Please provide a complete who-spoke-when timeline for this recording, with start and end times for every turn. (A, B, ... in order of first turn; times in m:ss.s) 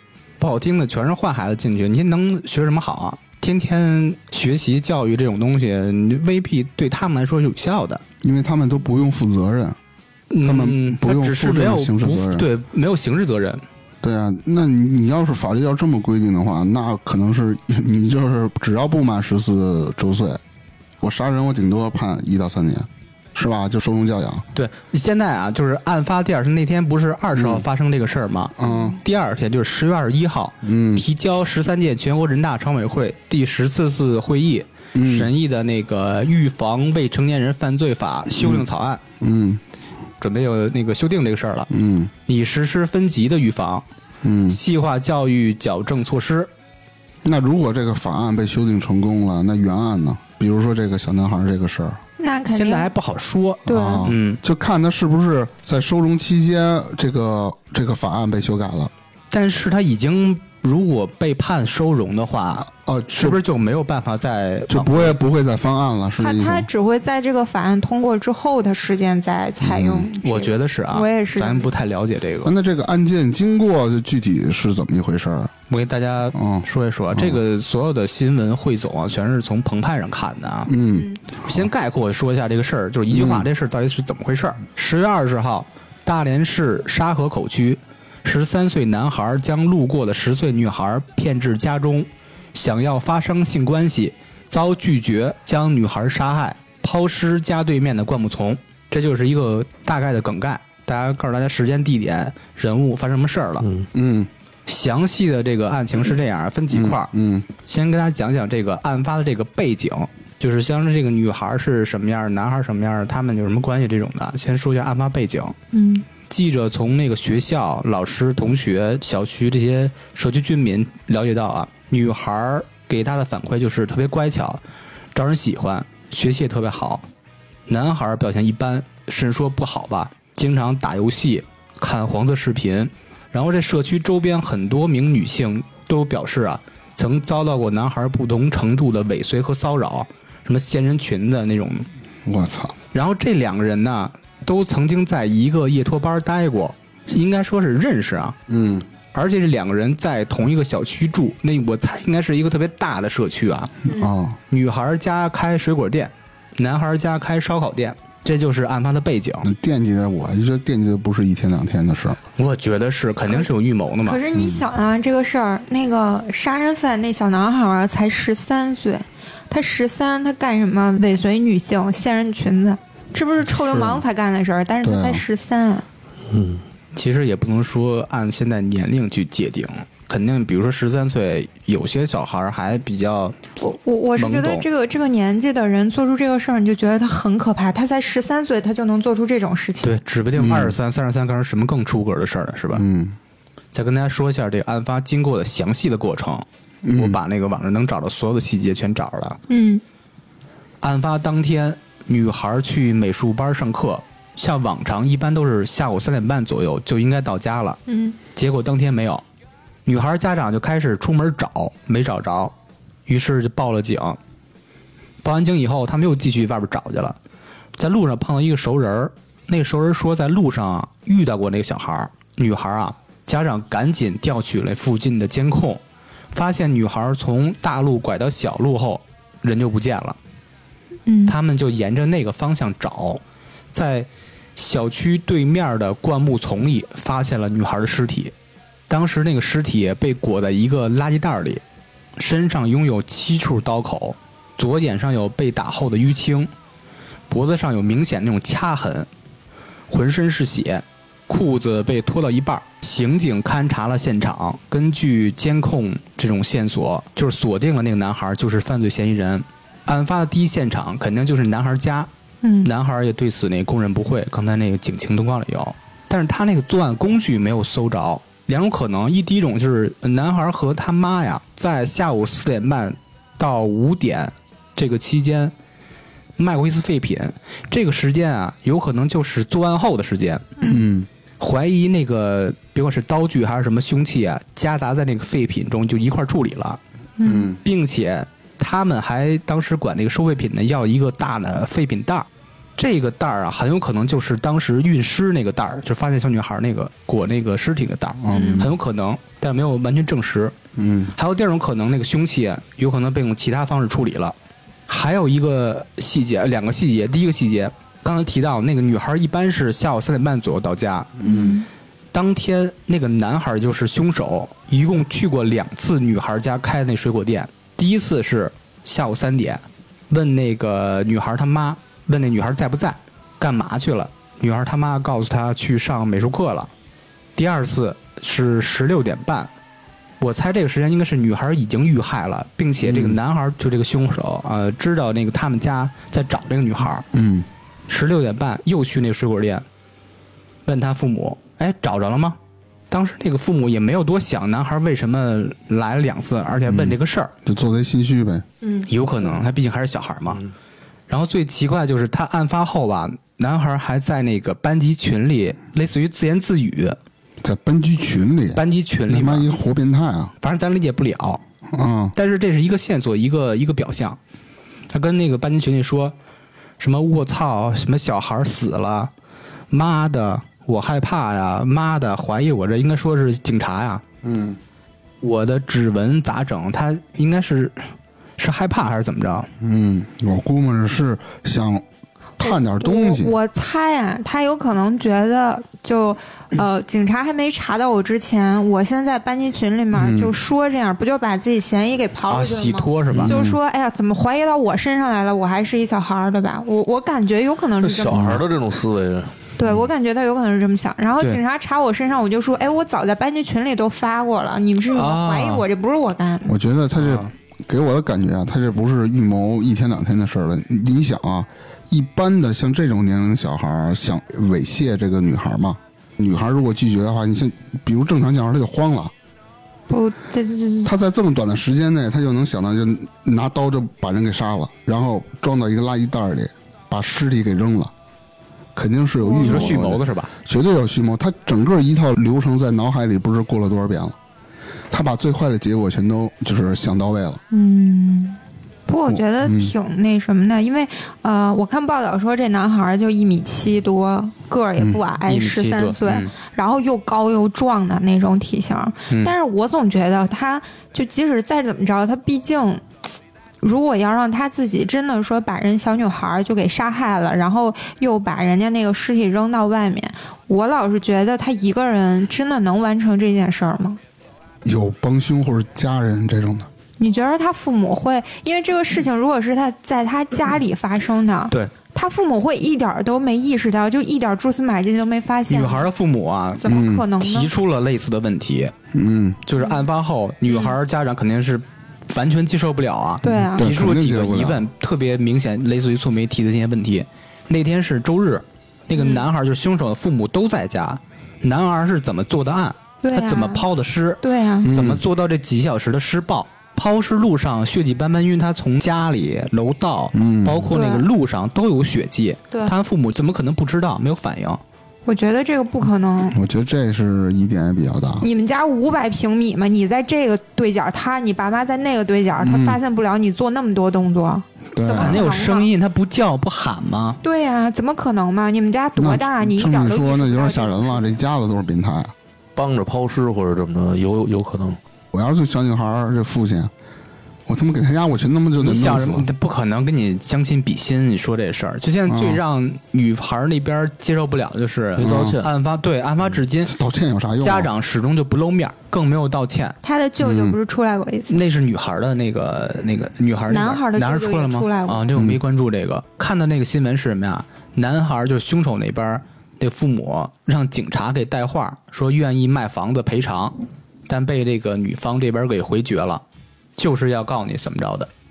0:00.4-0:08.0 A
0:08.2-0:09.8 B
0:10.3-0:13.6 A
0:10.4-0:12.5 B
0:14.0-0:20.4 B
0:21.0-0:24.4 B
0:24.5-0:39.0 A
0:27.3-0:27.6 B
0:28.6-0:29.0 B
0:30.6-0:31.0 B
0:34.9-0:35.3 B
0:38.4-0:38.6 B
0:39.2-0:39.6 B
0:40.2-0:41.7 A
0:41.7-0:42.1 B
0:42.3-0:43.8 A
0:44.2-0:44.6 B
0:44.5-0:46.5 A
0:47.2-0:52.0 B
0:52.2-0:52.9 C
0:52.5-0:54.4 A
0:53.6-0:54.1 C
0:53.6-0:58.9 B
0:59.3-1:05.2 A
1:02.8-1:03.4 B
1:04.7-1:06.7 B
1:06.2-1:11.7 C
1:09.6-1:10.1 B
1:10.2-1:12.5 A
1:12.4-1:15.5 B
1:15.7-1:20.7 A
1:16.3-1:17.4 B
1:20.7-1:21.2 B
1:21.4-1:43.7 A
1:23.1-1:23.4 B
1:43.9-1:44.3 B
1:44.7-1:47.1 A
1:46.7-1:47.5 B
1:47.6-1:55.6 A
1:55.7-1:56.1 C
1:56.3-2:04.6 A
2:05.1-2:07.0 A
2:07.7-2:21.9 A
2:22.2-2:22.7 B
2:22.9-2:28.4 A
2:28.5-2:28.8 B
2:29.1-2:33.7 A
2:33.8-2:34.4 B
2:34.5-2:39.5 A
2:39.4-2:42.2 B
2:42.4-2:44.2 A
2:44.0-2:55.8 C
2:44.3-2:44.6 B
2:54.8-2:55.2 B
2:56.3-2:56.6 D
2:56.9-3:03.4 A
3:03.6-3:10.0 C
3:04.2-3:04.6 A
3:09.8-3:12.8 A
3:10.4-3:10.7 B
3:12.7-3:13.2 B
3:13.7-3:19.4 A
3:16.8-3:17.2 B
3:19.5-3:19.8 C
3:20.8-3:27.8 A
3:27.9-3:28.2 C
3:28.3-3:29.2 A
3:29.8-3:32.5 A
3:33.1-3:34.2 A
3:35.2-3:37.2 A
3:37.8-3:45.8 A
3:46.3-3:50.2 A
3:51.0-3:51.3 C
3:51.2-3:53.2 A
3:53.7-3:58.3 A
3:58.9-4:01.6 A
4:02.2-4:06.5 A
4:07.3-4:09.1 A
4:09.9-4:22.1 A
4:22.4-4:22.7 C
4:22.6-4:35.5 A
4:36.4-4:40.4 A
4:40.6-4:41.1 B
4:41.4-4:46.8 A
4:47.2-4:47.5 C
4:47.2-4:47.6 B
4:47.6-5:00.5 A
4:58.2-4:58.7 B
4:58.3-4:58.6 C
5:00.7-5:01.1 B
5:01.1-5:04.3 A
5:04.9-5:11.1 A
5:11.2-5:11.6 B
5:11.2-5:11.7 C
5:12.1-5:26.7 A
5:27.4-5:29.5 A
5:30.2-5:37.0 A
5:32.8-5:33.2 B
5:37.1-5:37.5 B
5:37.9-5:39.6 A
5:40.6-5:42.4 A
5:42.9-5:47.3 A
5:46.6-5:48.4 B
5:48.8-5:50.4 A
5:51.1-5:57.0 A
5:57.4-6:00.3 B
5:58.5-5:59.5 A
6:00.4-6:01.4 A
6:01.7-6:02.1 B
6:02.1-6:04.2 A
6:04.9-6:06.1 A
6:06.8-6:09.1 A
6:09.7-6:14.0 A
6:14.2-6:14.6 B
6:15.2-6:19.5 A
6:19.6-6:21.8 B
6:22.4-6:23.4 B
6:22.4-6:38.4 C
6:29.9-6:30.3 B
6:32.3-6:33.4 A
6:33.1-6:33.6 B
6:37.8-6:39.3 D
6:38.0-6:38.4 B
6:39.6-6:46.6 C
6:44.9-6:45.6 A
6:46.4-6:59.1 B
6:47.0-6:47.3 A
6:59.9-7:00.9 C
7:00.8-7:07.9 B
7:08.7-7:14.2 B
7:09.2-7:09.8 C
7:09.4-7:10.3 A
7:14.9-7:17.4 B
7:17.5-7:32.8 C
7:19.1-7:19.7 B
7:25.2-7:26.3 A
7:29.1-7:29.3 A
7:33.6-7:44.0 C
7:44.6-7:46.7 B
7:47.0-7:55.9 C
7:55.5-7:58.7 A
7:56.6-7:57.5 C
7:56.6-7:57.1 B
7:58.9-7:59.4 B
7:59.4-8:24.6 A
7:59.6-7:59.8 C
8:00.5-8:00.7 C
8:03.2-8:03.7 C
8:03.2-8:04.6 B
8:08.9-8:09.2 C
8:13.0-8:13.6 C
8:14.2-8:14.7 C
8:14.6-8:15.0 B
8:20.1-8:20.7 B
8:20.7-8:21.0 C
8:25.0-8:26.4 C
8:26.2-8:28.2 B
8:28.2-8:35.7 C
8:32.4-8:32.8 B
8:34.7-8:35.3 B
8:35.0-8:37.2 A
8:37.2-8:41.1 C
8:39.0-8:42.1 B
8:42.6-8:44.8 D
8:45.1-8:46.7 B
8:47.5-8:49.3 B
8:48.6-8:56.7 A
8:52.1-8:52.4 B
8:55.0-8:55.5 D
8:55.0-8:55.4 B
8:56.7-8:57.7 B
8:57.4-8:59.8 A
8:59.8-9:01.4 C
9:00.2-9:00.6 B
9:01.3-9:13.5 A
9:03.5-9:05.1 C
9:14.1-9:16.2 A
9:16.8-9:18.1 A